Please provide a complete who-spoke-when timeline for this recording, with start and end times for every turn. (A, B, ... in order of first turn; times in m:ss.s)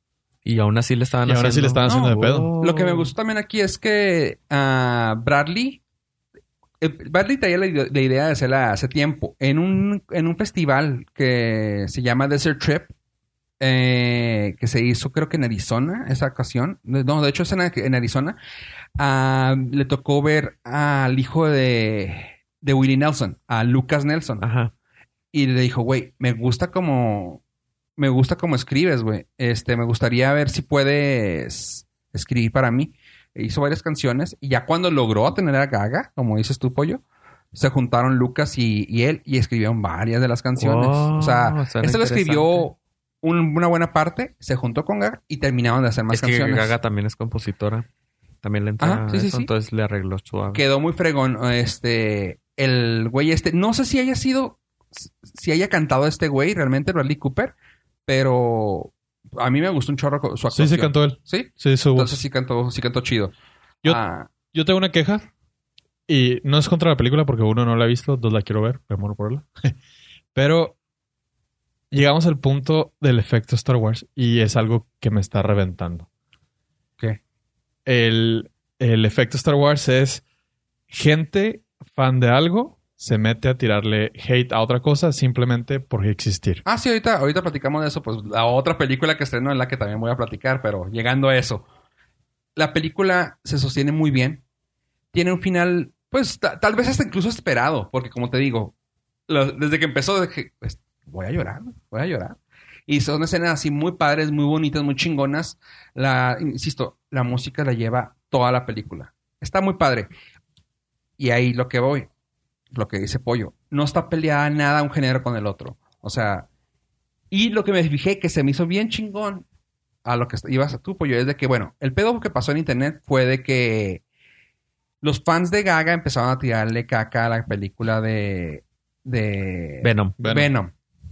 0:00.4-0:03.1 A
0:01.2-0:02.5 B
0:01.8-0:05.8 C
0:06.8-0:12.9 C
0:13.6-0:18.4 C
0:19.0-0:24.4 C
0:24.4-0:24.7 A
0:25.3-0:27.4 C
0:28.0-0:37.0 C
0:37.5-0:46.7 C
0:40.6-0:42.7 A
0:46.1-0:47.8 A
0:48.4-0:50.6 A
0:48.8-0:49.5 C
0:50.5-0:57.5 C
0:58.0-1:03.3 C
1:00.5-1:02.2 B
1:03.8-1:04.3 C
1:03.8-1:05.2 B
1:06.1-1:09.5 B
1:10.3-1:10.8 B
1:11.9-1:16.1 B
1:17.8-1:20.2 B
1:20.9-1:26.6 B
1:26.6-1:31.6 C
1:32.6-1:34.4 C
1:35.1-1:38.7 C
1:39.3-1:42.4 C
1:42.9-1:50.1 C
1:51.2-1:52.1 C
1:52.7-1:56.5 C
1:57.3-1:59.4 C
2:00.0-2:04.0 C
2:05.0-2:10.7 C
2:09.8-2:10.2 A
2:10.2-2:10.5 B